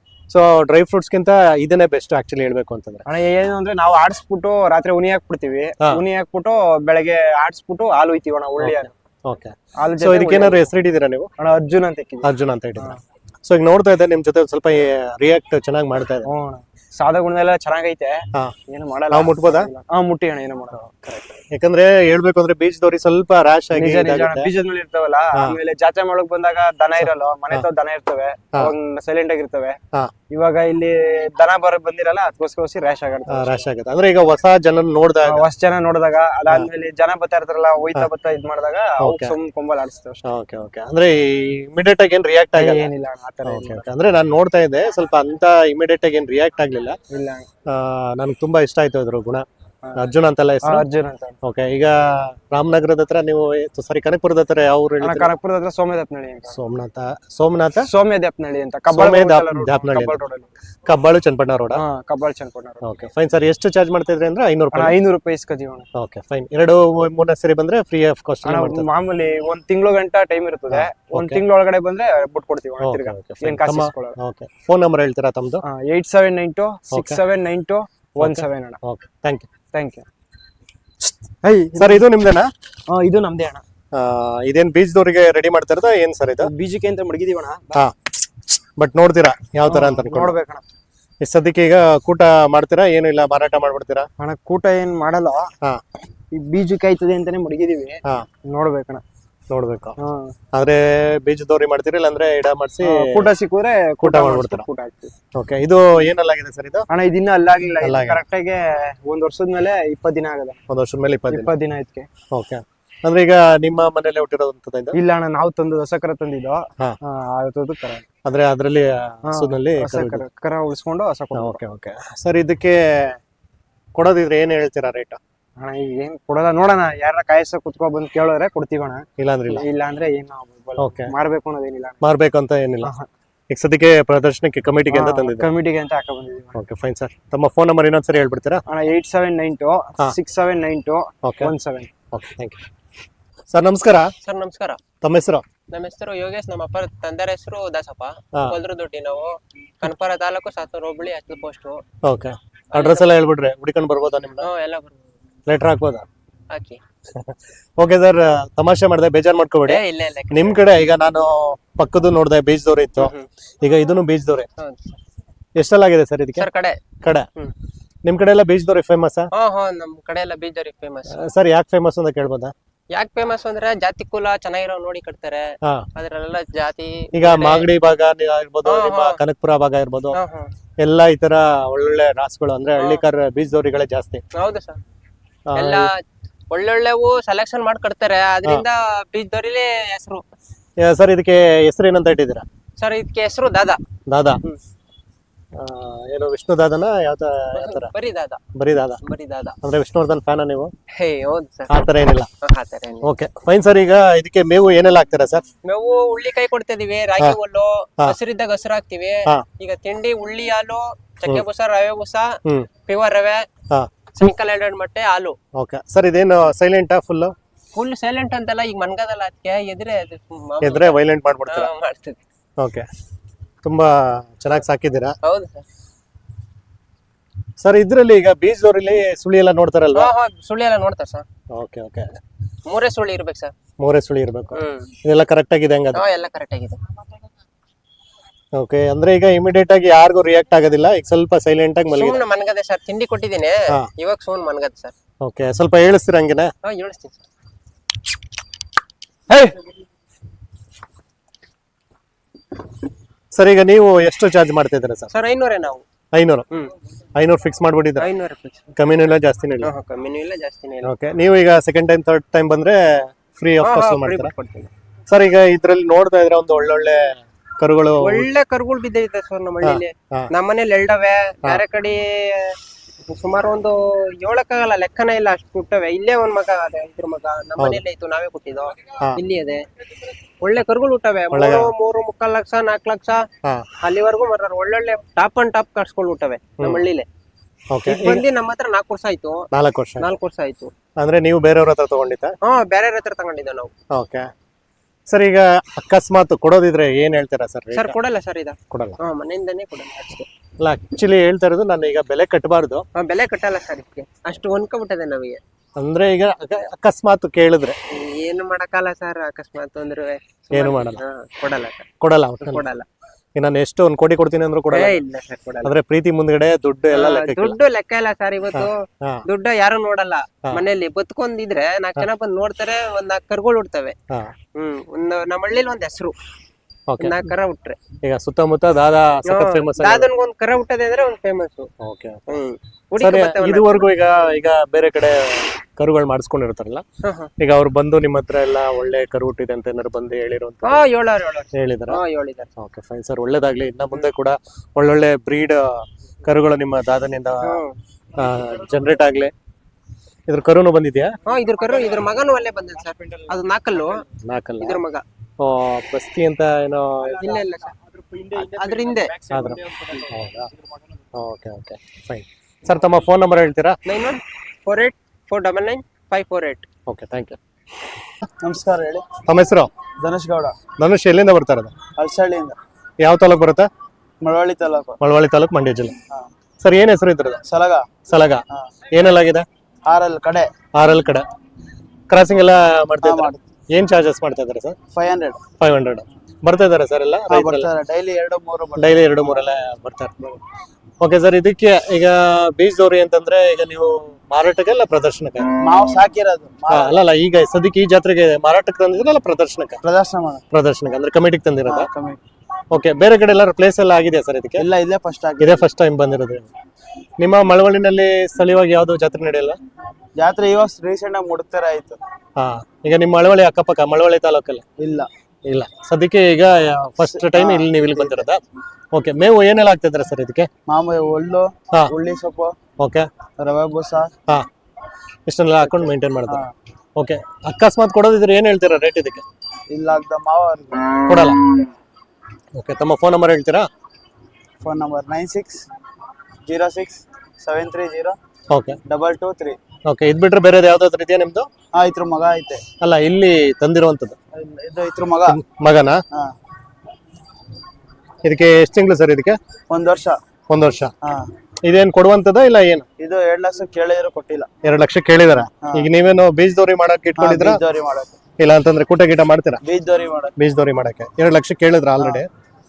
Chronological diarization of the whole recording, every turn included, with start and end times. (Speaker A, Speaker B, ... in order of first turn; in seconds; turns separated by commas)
Speaker A: 0.3-3.0, Speaker B: 3.0-8.9, Speaker A: 8.6-11.3, Speaker B: 9.8-10.7, Speaker B: 11.4-13.0, Speaker A: 12.2-16.3, Speaker B: 16.2-20.8, Speaker A: 19.1-19.7, Speaker A: 20.8-24.5, Speaker B: 23.7-29.8, Speaker A: 27.0-27.6, Speaker B: 30.3-33.6, Speaker A: 33.3-35.5, Speaker B: 35.2-40.2, Speaker A: 39.0-39.3, Speaker A: 40.2-42.9, Speaker B: 42.5-43.9, Speaker A: 43.4-47.0, Speaker B: 47.1-47.5, Speaker A: 47.7-49.4, Speaker A: 50.0-50.8, Speaker B: 50.6-51.4, Speaker A: 51.4-55.3, Speaker B: 55.0-56.6, Speaker A: 56.5-57.9, Speaker B: 57.9-60.5, Speaker A: 58.9-60.2, Speaker A: 60.9-61.8, Speaker B: 61.7-62.8, Speaker A: 62.8-65.0, Speaker B: 64.7-65.9, Speaker A: 65.9-68.9, Speaker B: 68.4-74.2, Speaker A: 70.7-71.4, Speaker A: 72.8-75.6, Speaker B: 75.6-78.8, Speaker A: 76.9-77.2, Speaker A: 78.2-79.5, Speaker B: 79.7-80.0, Speaker B: 81.4-82.1, Speaker A: 81.7-82.5, Speaker B: 82.9-83.6, Speaker A: 83.9-86.5, Speaker B: 86.4-87.8, Speaker A: 87.7-90.3, Speaker B: 89.7-90.6, Speaker A: 91.2-94.1, Speaker B: 94.2-95.5, Speaker B: 96.3-99.0, Speaker A: 99.5-100.0, Speaker B: 100.0-100.3, Speaker A: 100.5-103.3, Speaker B: 102.8-105.1, Speaker A: 104.0-104.7, Speaker A: 105.3-106.9, Speaker B: 106.9-110.6, Speaker A: 107.8-108.2, Speaker A: 110.7-111.5, Speaker B: 111.3-112.1, Speaker A: 112.3-115.0, Speaker B: 114.9-118.0, Speaker A: 118.2-120.2, Speaker B: 119.3-121.6, Speaker A: 121.3-123.2, Speaker A: 124.0-125.2, Speaker B: 125.6-132.0, Speaker A: 129.2-129.6, Speaker A: 130.8-131.1, Speaker A: 132.0-132.9, Speaker A: 133.5-135.5, Speaker B: 134.9-136.6, Speaker A: 136.5-138.6, Speaker B: 138.7-141.9, Speaker A: 141.2-141.5, Speaker A: 142.1-142.6, Speaker A: 143.5-144.1, Speaker C: 144.2-144.8, Speaker A: 145.0-145.4, Speaker C: 145.7-151.8, Speaker A: 152.0-154.5, Speaker C: 152.7-153.1, Speaker C: 154.4-154.9, Speaker A: 155.5-156.1, Speaker C: 156.5-156.8, Speaker A: 157.1-164.5, Speaker C: 159.7-160.6, Speaker C: 163.0-163.2, Speaker C: 164.6-165.0, Speaker A: 165.6-166.5, Speaker C: 166.3-166.8, Speaker A: 167.0-167.3, Speaker A: 168.0-169.3, Speaker C: 169.3-171.2, Speaker A: 171.1-172.5, Speaker C: 172.9-177.7, Speaker A: 177.1-180.2, Speaker C: 178.6-179.2, Speaker C: 180.1-180.5, Speaker A: 180.8-184.2, Speaker C: 182.8-183.0, Speaker C: 184.3-184.8, Speaker A: 185.5-185.9, Speaker C: 185.5-185.9, Speaker C: 186.5-190.2, Speaker A: 190.8-192.4, Speaker C: 192.8-193.8, Speaker A: 194.1-194.4, Speaker A: 195.5-197.9, Speaker C: 197.5-198.4, Speaker A: 198.5-199.0, Speaker C: 199.0-199.6, Speaker A: 199.6-200.7, Speaker C: 200.9-201.7, Speaker A: 201.7-202.3, Speaker C: 202.4-203.1, Speaker A: 203.0-205.4, Speaker C: 205.6-213.5, Speaker A: 212.4-212.7, Speaker C: 214.1-215.4, Speaker A: 215.5-217.3, Speaker C: 217.7-222.2, Speaker A: 220.6-221.7, Speaker A: 222.6-222.8, Speaker A: 223.6-225.2, Speaker C: 225.2-225.6, Speaker A: 227.6-230.1, Speaker C: 229.9-231.2, Speaker A: 231.5-232.2, Speaker C: 232.7-233.5, Speaker A: 233.8-236.0, Speaker C: 234.6-234.9, Speaker C: 235.9-236.8, Speaker A: 238.5-242.2, Speaker C: 241.9-244.9, Speaker A: 245.2-246.5, Speaker C: 246.6-247.2, Speaker A: 249.3-249.6, Speaker A: 253.3-255.1, Speaker C: 255.1-255.8, Speaker A: 256.1-256.5, Speaker A: 257.1-258.1, Speaker C: 258.0-258.6, Speaker A: 258.7-259.7, Speaker C: 259.6-260.9, Speaker A: 260.8-264.3, Speaker C: 263.6-264.7, Speaker A: 265.1-268.3, Speaker C: 268.0-279.6, Speaker A: 269.6-270.3, Speaker A: 277.6-277.8, Speaker C: 280.4-283.2, Speaker A: 281.3-281.7, Speaker C: 283.8-287.1, Speaker A: 286.6-286.9, Speaker A: 287.7-288.2, Speaker C: 287.9-289.5, Speaker A: 289.5-290.1, Speaker C: 290.0-290.7, Speaker A: 291.0-292.4, Speaker C: 292.4-293.7, Speaker A: 293.9-294.3, Speaker A: 295.1-297.9, Speaker C: 297.7-300.3, Speaker A: 298.7-299.0, Speaker A: 300.6-302.9, Speaker C: 302.9-305.4, Speaker A: 305.8-307.8, Speaker C: 307.9-311.9, Speaker A: 310.5-311.0, Speaker A: 312.0-312.6, Speaker C: 312.4-312.9, Speaker A: 313.4-315.0, Speaker C: 314.7-315.7, Speaker A: 315.6-317.6, Speaker C: 316.9-323.9, Speaker A: 318.5-319.2, Speaker C: 324.5-326.1, Speaker A: 326.9-327.2, Speaker C: 327.0-327.8, Speaker A: 328.0-330.1, Speaker C: 329.2-331.7, Speaker A: 331.8-332.4, Speaker C: 332.3-333.9, Speaker A: 333.0-336.8, Speaker C: 337.0-337.3, Speaker A: 337.4-340.8, Speaker C: 340.6-342.5, Speaker A: 341.5-342.0, Speaker A: 342.6-347.6, Speaker C: 347.4-347.8, Speaker A: 348.1-349.3, Speaker A: 350.3-351.1, Speaker C: 351.2-354.1, Speaker A: 354.2-354.8, Speaker C: 354.6-355.0, Speaker A: 355.4-357.4, Speaker C: 357.2-357.8, Speaker C: 358.3-359.1, Speaker A: 359.3-360.5, Speaker A: 361.1-363.8, Speaker C: 363.9-366.7, Speaker A: 366.9-367.4, Speaker D: 368.4-369.2, Speaker A: 369.2-369.7, Speaker D: 370.0-370.6, Speaker A: 370.8-371.7, Speaker D: 372.0-372.6, Speaker A: 373.0-373.7, Speaker D: 374.2-375.0, Speaker A: 375.0-375.9, Speaker A: 376.6-377.4, Speaker D: 377.4-377.9, Speaker A: 378.1-379.4, Speaker D: 379.9-380.5, Speaker A: 380.7-381.2, Speaker A: 382.1-384.8, Speaker D: 383.0-383.4, Speaker D: 384.9-385.4, Speaker A: 385.6-387.7, Speaker D: 387.3-389.4, Speaker A: 388.8-390.4, Speaker A: 391.0-395.5, Speaker D: 395.6-397.0, Speaker A: 396.7-399.8, Speaker D: 399.8-400.4, Speaker A: 400.5-401.9, Speaker D: 401.6-402.2, Speaker A: 402.7-404.6, Speaker D: 404.6-405.6, Speaker A: 405.4-406.5, Speaker A: 407.2-409.6, Speaker D: 410.2-412.0, Speaker A: 412.4-414.6, Speaker D: 414.8-415.1, Speaker A: 415.4-418.4, Speaker D: 417.0-418.2, Speaker A: 418.9-420.5, Speaker D: 420.7-422.6, Speaker A: 422.8-423.1, Speaker D: 423.4-424.1, Speaker A: 425.3-426.4, Speaker D: 425.6-426.5, Speaker A: 427.0-429.2, Speaker D: 429.7-431.0, Speaker A: 431.1-431.4, Speaker A: 432.5-433.7, Speaker D: 434.6-435.7, Speaker D: 436.4-438.2, Speaker A: 438.5-438.8, Speaker D: 438.8-439.6, Speaker A: 439.9-441.5, Speaker D: 441.7-442.6, Speaker A: 442.8-444.2, Speaker D: 444.3-445.4, Speaker A: 445.3-446.0, Speaker A: 448.2-449.4, Speaker D: 449.7-450.2, Speaker A: 450.5-450.9, Speaker D: 451.0-451.3, Speaker A: 451.6-452.9, Speaker D: 453.0-454.5, Speaker A: 454.6-457.6, Speaker D: 455.6-455.9, Speaker D: 457.2-458.2, Speaker A: 458.4-459.6, Speaker D: 459.6-460.3, Speaker A: 460.4-462.3, Speaker D: 462.0-462.2